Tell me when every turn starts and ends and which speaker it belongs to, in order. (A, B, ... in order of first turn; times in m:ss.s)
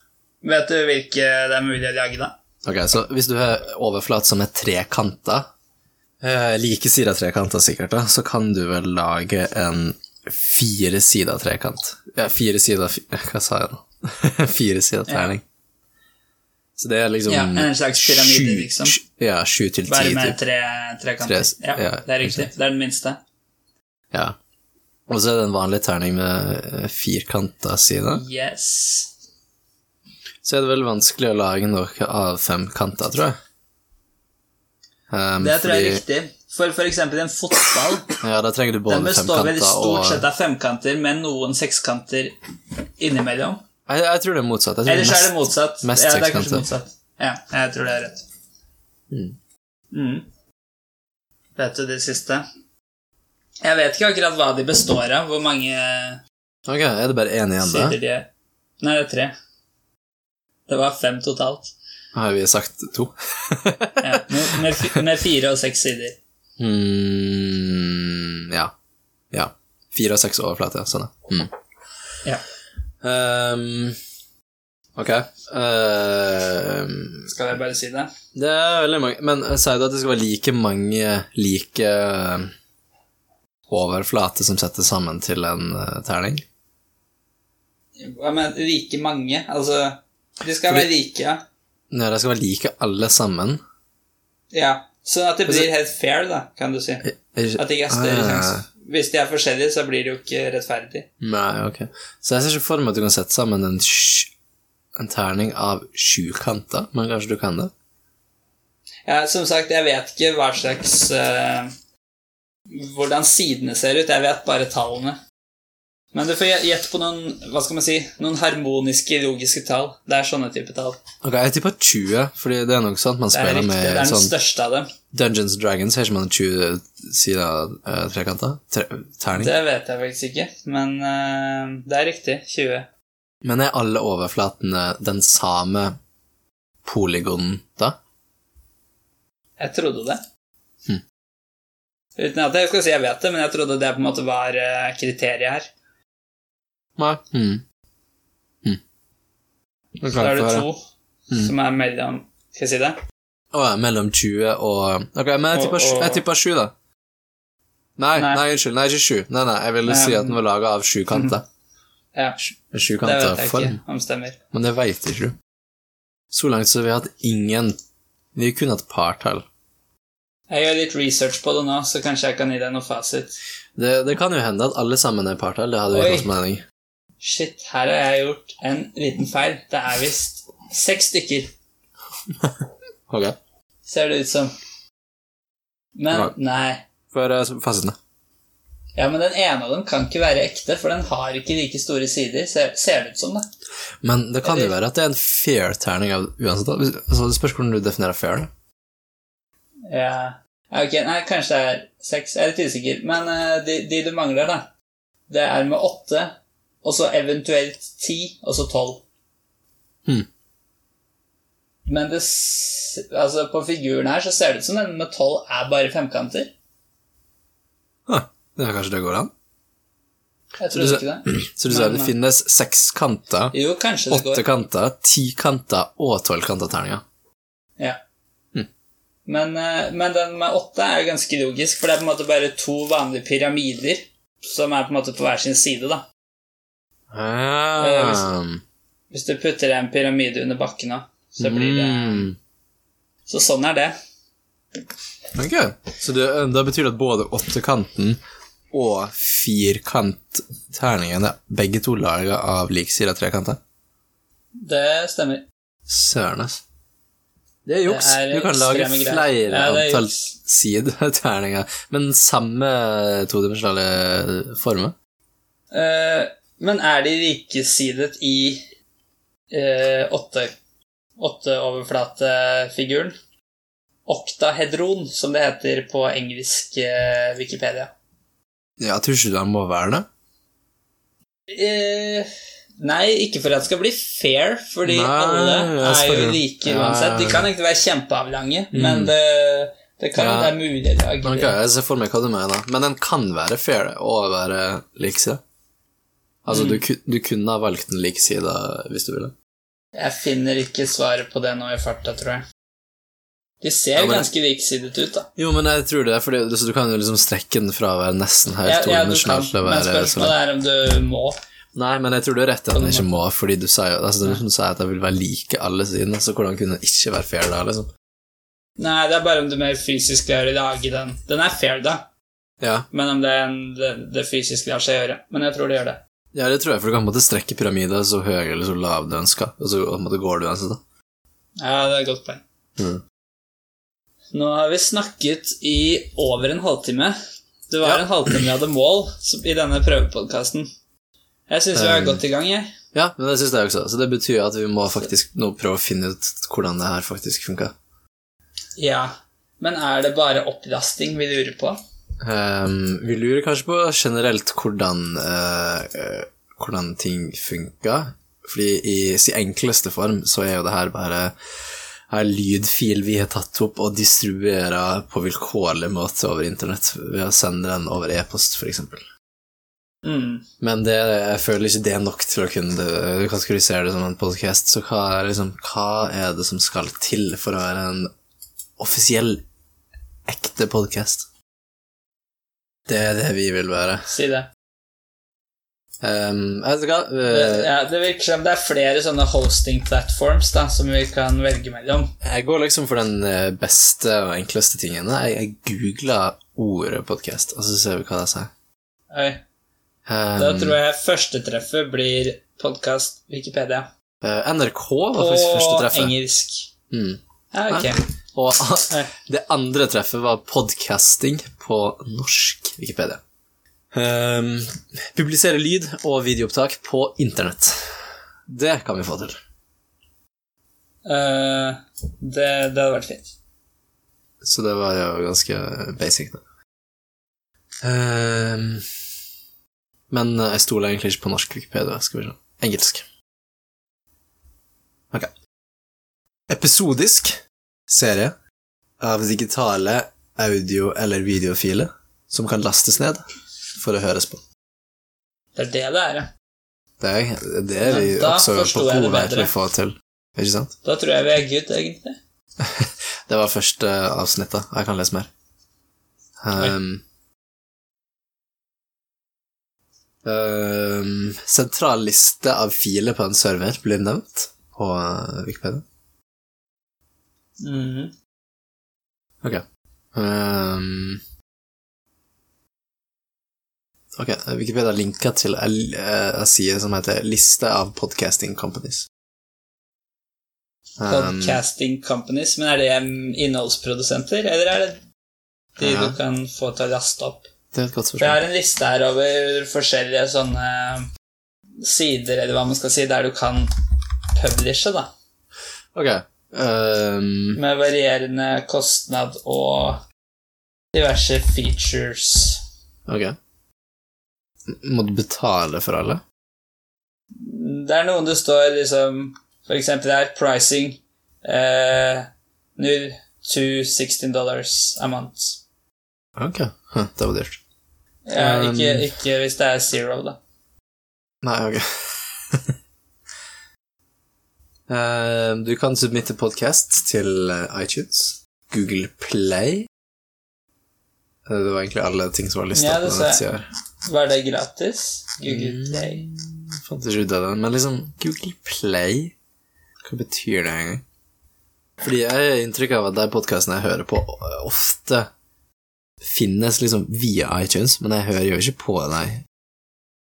0:00.4-0:02.3 A
0:02.6-0:05.5 B
0:06.2-0:15.4 B
0:16.8-0:20.4 B
0:17.3-0:19.0 A
0:19.9-0:23.2 A
0:21.2-0:22.5 B
0:25.1-0:28.2 B
0:28.1-0:29.1 A
0:30.4-0:33.4 B
0:35.1-0:36.0 B
0:35.4-0:38.2 A
0:38.2-0:40.2 B
0:38.9-0:42.4 A
0:43.0-0:43.6 A
0:43.9-0:46.7 B
0:44.8-0:48.2 A
0:49.1-0:49.4 B
0:49.9-0:50.2 A
0:51.6-0:52.4 A
0:53.6-0:56.2 A
0:56.7-0:58.0 B
0:57.6-0:58.3 A
0:58.8-0:59.3 A
1:00.7-1:01.7 A
1:02.1-1:05.0 B
1:04.0-1:06.2 A
1:06.6-1:08.7 B
1:09.3-1:11.5 B
1:13.0-1:14.0 B
1:15.0-1:17.3 B
1:17.2-1:18.1 A
1:18.3-1:22.5 B
1:23.7-1:26.4 B
1:28.0-1:31.4 A
1:31.9-1:33.6 B
1:34.5-1:37.0 A
1:37.0-1:38.6 B
1:37.6-1:41.1 A
1:41.2-1:44.3 B
1:45.0-1:47.7 B
1:49.0-1:51.7 A
1:52.7-1:55.2 A
1:56.1-2:01.0 A
2:01.2-2:04.3 B
2:03.3-2:04.9 A
2:05.1-2:09.5 B
2:09.4-2:12.9 A
2:13.4-2:16.0 B
2:16.8-2:18.0 B
2:19.6-2:20.2 A
2:22.2-2:25.7 A
2:27.0-2:27.6 B
2:30.0-2:30.7 B
2:30.1-2:30.8 A
2:31.3-2:33.0 A
2:33.5-2:36.7 B
2:35.5-2:36.2 A
2:38.0-2:41.4 B
2:38.2-2:38.4 A
2:39.8-2:40.4 A
2:42.6-2:43.8 B
2:43.0-2:44.4 A
2:44.5-2:45.3 B
2:46.3-2:47.8 B
2:48.3-2:49.4 B
2:50.5-2:53.4 A
2:53.8-2:56.6 B
2:55.9-2:56.3 A
2:57.2-3:01.5 A
3:02.4-3:03.4 B
3:03.8-3:04.5 A
3:06.0-3:06.8 A
3:07.1-3:08.0 B
3:09.0-3:13.4 A
3:14.0-3:18.5 B
3:14.4-3:14.7 A
3:19.9-3:24.7 A
3:25.3-3:29.0 A
3:31.8-3:36.5 A
3:38.1-3:39.3 B
3:40.6-3:42.1 A
3:40.7-3:43.5 B
3:43.5-3:44.4 A
3:44.1-3:47.0 B
3:49.2-3:56.0 A
3:57.1-3:58.6 B
3:57.8-3:58.3 A
3:59.1-4:02.3 A
4:01.4-4:02.4 B
4:03.3-4:03.9 A
4:05.3-4:08.2 B
4:08.7-4:13.6 B
4:14.6-4:15.4 A
4:15.9-4:16.6 B
4:17.6-4:24.9 B
4:17.8-4:20.3 A
4:25.7-4:28.6 A
4:29.5-4:30.5 A
4:31.2-4:33.1 A
4:34.0-4:37.9 A
4:38.8-4:40.0 B
4:41.5-4:51.5 A
4:44.8-4:47.5 B
4:48.7-4:49.1 B
4:50.2-4:50.6 B
4:51.2-4:55.4 B
4:56.4-4:59.3 B
4:56.5-4:56.8 A
4:59.9-5:02.4 A
5:03.6-5:05.3 A
5:04.0-5:04.3 B
5:05.4-5:10.4 B
5:08.6-5:11.4 A
5:11.7-5:17.9 B
5:12.7-5:13.1 A
5:18.8-5:22.1 A
5:22.6-5:22.9 B
5:22.9-5:26.0 A
5:26.3-5:30.8 B
5:31.6-5:32.4 A
5:32.8-5:33.0 B
5:34.3-5:37.1 A
5:37.7-5:40.7 A
5:41.5-5:42.7 A
5:41.7-5:42.2 B
5:42.9-5:47.7 B
5:48.8-5:51.8 A
5:52.2-6:01.3 B
6:02.1-6:09.0 B
6:10.0-6:10.4 A
6:10.6-6:18.1 B
6:18.8-6:19.4 B
6:20.2-6:21.2 B
6:22.9-6:24.0 B
6:24.0-6:24.5 A
6:26.0-6:27.7 B
6:27.3-6:32.1 A
6:32.2-6:38.5 B
6:39.1-6:39.4 A
6:40.0-6:40.8 B
6:40.4-6:43.9 A
6:44.2-6:46.1 B
6:45.1-6:46.7 A
6:46.9-6:53.2 B
6:47.5-6:48.0 A
6:53.9-6:57.9 B
6:58.5-6:59.4 B
7:01.0-7:03.3 A
7:04.4-7:06.4 B
7:07.8-7:08.8 B
7:10.1-7:13.0 B
7:16.5-7:18.3 B
7:19.0-7:23.2 B
7:23.7-7:24.4 B
7:25.6-7:26.3 A
7:27.0-7:30.7 B
7:27.8-7:29.5 A
7:30.8-7:32.2 A
7:32.6-7:35.3 B
7:36.4-7:37.0 B
7:40.2-7:45.8 B
7:47.6-7:48.1 A
7:49.4-7:51.2 B
7:54.2-7:59.1 B
8:01.0-8:01.6 B
8:01.0-8:05.0 A
8:05.8-8:07.5 A
8:05.8-8:06.2 B
8:07.7-8:08.4 B
8:08.2-8:11.1 A
8:11.8-8:13.7 A
8:14.4-8:15.1 A
8:15.9-8:17.6 B
8:17.5-8:20.0 A
8:20.9-8:22.6 A
8:23.1-8:23.4 B
8:24.7-8:26.2 B
8:27.4-8:35.6 A
8:36.4-8:37.6 B
8:38.3-8:40.4 A
8:38.4-8:39.1 B
8:41.4-8:42.7 B
8:44.9-8:49.9 B
8:51.4-8:53.6 B
8:52.7-8:53.4 A
8:54.0-8:56.2 A
8:55.4-8:59.3 B
9:00.0-9:01.0 B
9:02.0-9:05.3 B
9:06.2-9:09.4 B